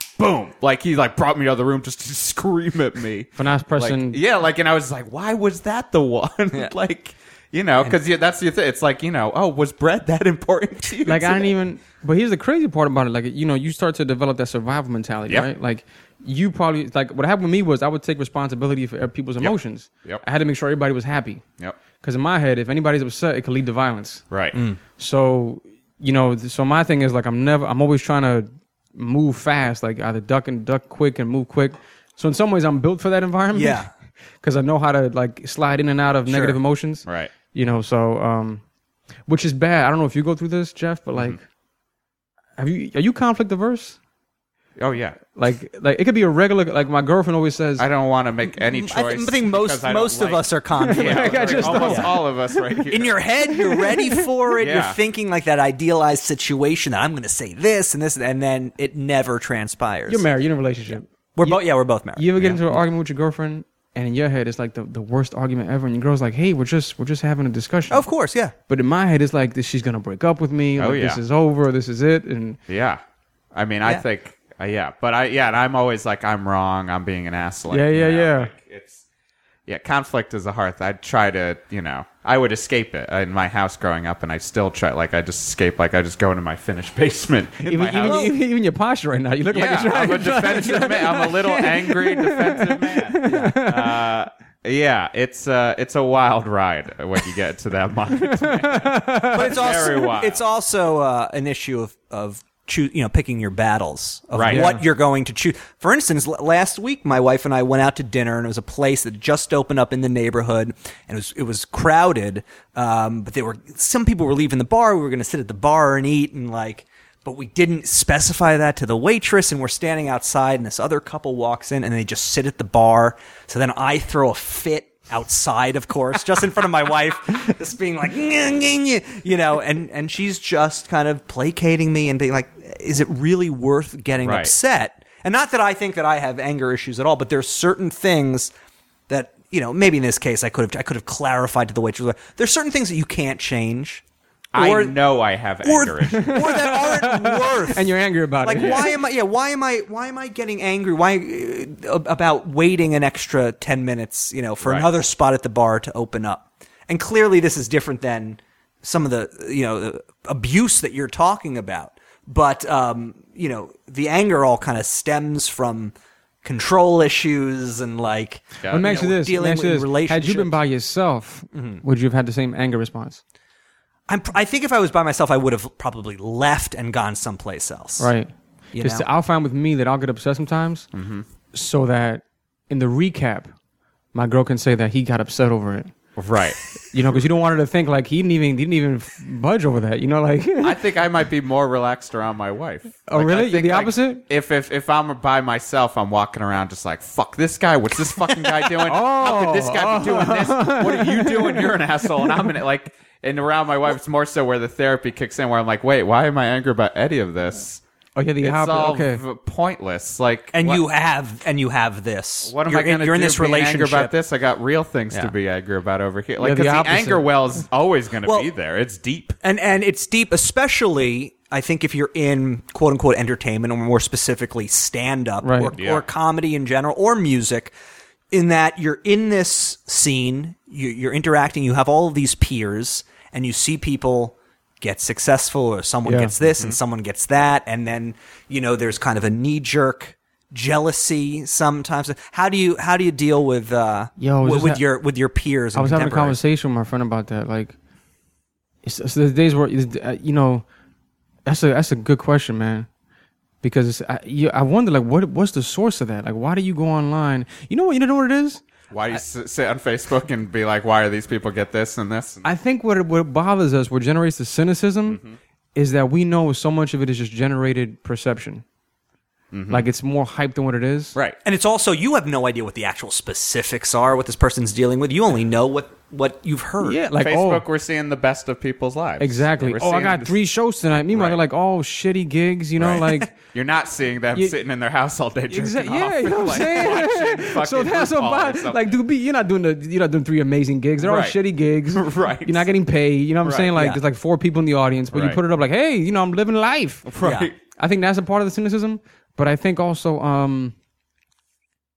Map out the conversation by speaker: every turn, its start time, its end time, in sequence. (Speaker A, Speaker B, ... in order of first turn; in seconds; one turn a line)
Speaker A: 0.2-11.5
Speaker B: 3.4-4.2
Speaker B: 11.1-21.4
Speaker A: 19.4-20.2
Speaker B: 22.0-24.2
Speaker A: 24.3-24.6
Speaker C: 24.5-24.8
Speaker B: 25.0-33.9
Speaker C: 33.5-33.9
Speaker B: 34.4-38.6
Speaker A: 37.1-37.3
Speaker B: 39.3-41.4
Speaker B: 42.6-44.0
Speaker A: 44.8-45.2
Speaker B: 45.3-47.9
Speaker A: 47.8-53.2
Speaker C: 48.6-52.1
Speaker B: 50.8-52.9
Speaker C: 52.9-60.2
Speaker B: 53.5-54.3
Speaker A: 54.6-55.0
Speaker B: 60.1-61.6
Speaker C: 61.4-62.3
Speaker B: 62.2-68.0
Speaker C: 67.9-68.5
Speaker B: 68.7-72.6
Speaker A: 70.8-71.2
Speaker A: 72.7-73.0
Speaker A: 73.5-79.0
Speaker B: 77.7-78.5
Speaker A: 79.7-88.3
Speaker B: 87.6-94.1
Speaker C: 88.0-88.3
Speaker A: 89.5-100.4
Speaker C: 93.3-93.5
Speaker B: 98.3-99.6
Speaker C: 99.3-138.5
Speaker A: 104.3-104.8
Speaker B: 104.5-104.8
Speaker A: 134.2-134.5
Speaker C: 139.1-144.0
Speaker A: 144.5-146.5
Speaker C: 144.6-145.0
Speaker C: 145.6-165.9
Speaker B: 146.1-148.9
Speaker A: 148.6-148.9
Speaker A: 154.6-154.9
Speaker C: 166.4-170.6
Speaker A: 168.6-168.9
Speaker B: 168.7-173.2
Speaker C: 171.5-171.8
Speaker C: 174.1-178.1
Speaker B: 178.0-180.9
Speaker C: 178.7-179.1
Speaker A: 180.9-181.3
Speaker B: 181.5-183.5
Speaker B: 184.1-185.9
Speaker A: 186.2-186.6
Speaker B: 186.9-190.8
Speaker A: 190.6-207.8
Speaker B: 193.1-194.2
Speaker B: 198.8-202.5
Speaker B: 208.2-209.2
Speaker A: 208.4-210.8
Speaker C: 210.5-214.1
Speaker A: 212.4-219.4
Speaker B: 216.4-217.2
Speaker C: 218.2-218.5
Speaker C: 219.4-227.7
Speaker B: 225.4-225.8
Speaker A: 225.8-226.1
Speaker C: 228.3-246.4
Speaker B: 236.1-236.3
Speaker A: 236.5-236.8
Speaker B: 244.2-244.8
Speaker B: 245.7-247.8
Speaker B: 248.8-250.7
Speaker B: 251.5-252.9
Speaker B: 253.6-258.6
Speaker A: 258.9-262.5
Speaker B: 262.4-265.2
Speaker A: 265.1-265.4
Speaker B: 265.8-268.6
Speaker A: 269.5-269.9
Speaker B: 269.7-271.2
Speaker C: 271.4-277.0
Speaker B: 276.8-277.6
Speaker A: 277.1-280.4
Speaker B: 279.2-283.3
Speaker A: 281.1-281.4
Speaker A: 282.8-289.0
Speaker B: 285.5-297.1
Speaker A: 291.0-291.4
Speaker A: 291.9-292.7
Speaker A: 293.4-293.7
Speaker C: 293.8-294.0
Speaker A: 295.1-295.4
Speaker A: 297.1-297.6
Speaker C: 297.2-297.5
Speaker B: 297.7-300.8